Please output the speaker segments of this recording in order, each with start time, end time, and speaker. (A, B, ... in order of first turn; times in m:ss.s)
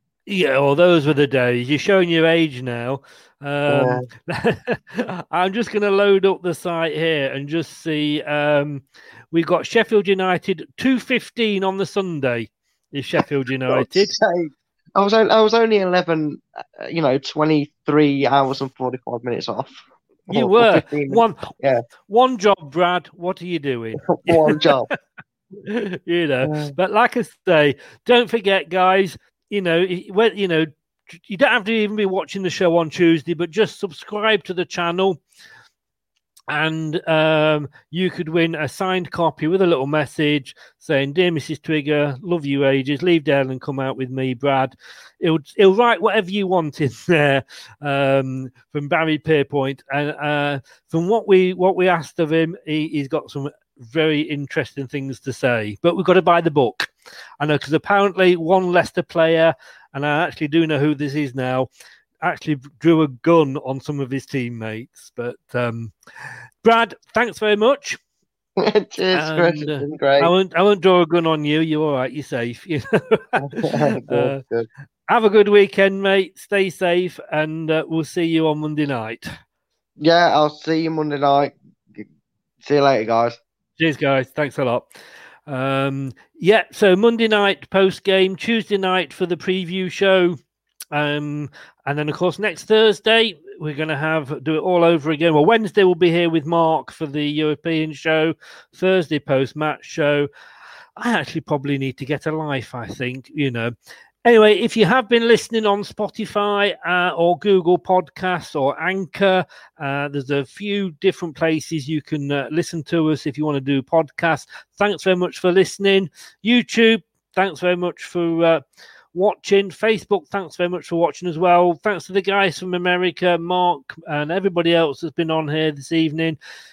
0:00.3-0:14.2 A
0:03.7-0:04.1 B
0:13.7-0:21.8 B
0:20.3-0:21.5 A
0:22.1-0:25.0 A
0:24.0-0:24.9 B
0:25.6-0:35.2 A
0:26.4-0:26.8 B
0:36.5-1:01.7 A
1:02.2-1:05.9 A
1:06.6-1:08.0 A
1:08.6-1:10.3 B
1:09.1-1:14.4 A
1:13.4-1:14.7 B
1:15.1-1:19.3 A
1:20.0-1:22.1 B
1:22.6-1:23.4 B
1:23.8-1:25.0 A
1:25.5-1:30.4 A
1:30.9-1:40.3 A
1:41.0-1:58.6 A
1:59.1-2:06.4 A